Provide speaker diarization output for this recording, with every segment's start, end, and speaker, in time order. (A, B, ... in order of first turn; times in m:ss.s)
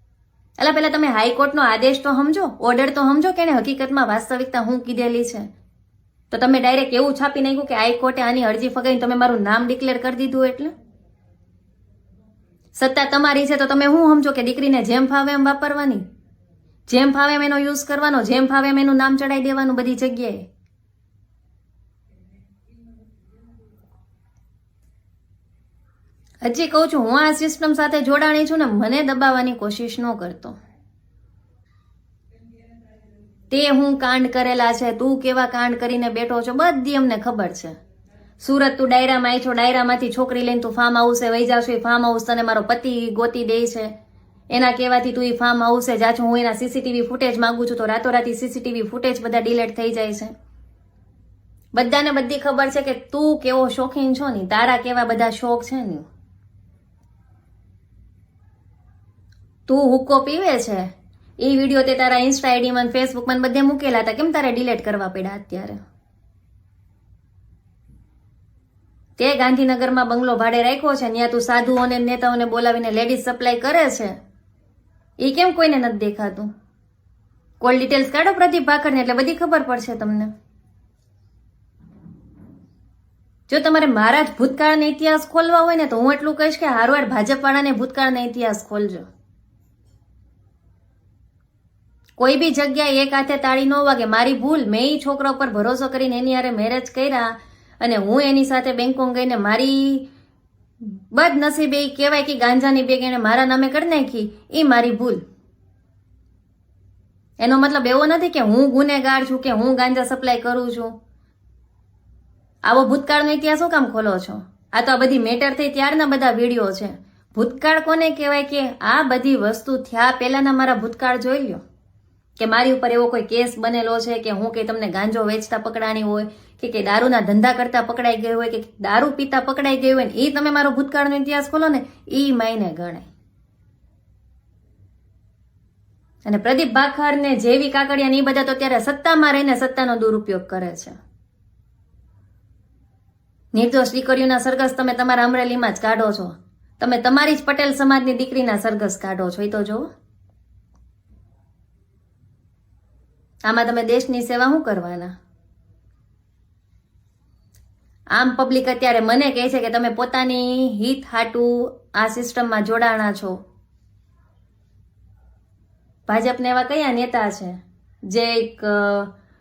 0:00.6-0:05.5 A
0:06.3-0:10.7 A
0:12.8-0:16.0 A
0:16.9-0:20.5 A
0:26.4-0:30.6 A
0:33.5-0:37.8 A
0:38.4-0:43.9 A
0:44.5-0:50.3 A
0:51.7-0:56.1 A
0:59.7-1:05.8 A
1:09.2-1:14.2 A
1:15.2-1:16.5 A
1:17.6-1:20.3 A
1:23.5-1:29.1 A
1:32.2-1:40.1 A
1:40.8-1:45.2 A
1:47.4-1:51.0 A
1:52.6-2:01.6 A
2:02.4-2:13.1 A
2:16.3-2:21.0 A
2:23.5-2:29.9 A
2:33.4-2:35.1 A
2:38.1-2:43.4 A
2:46.1-2:49.1 A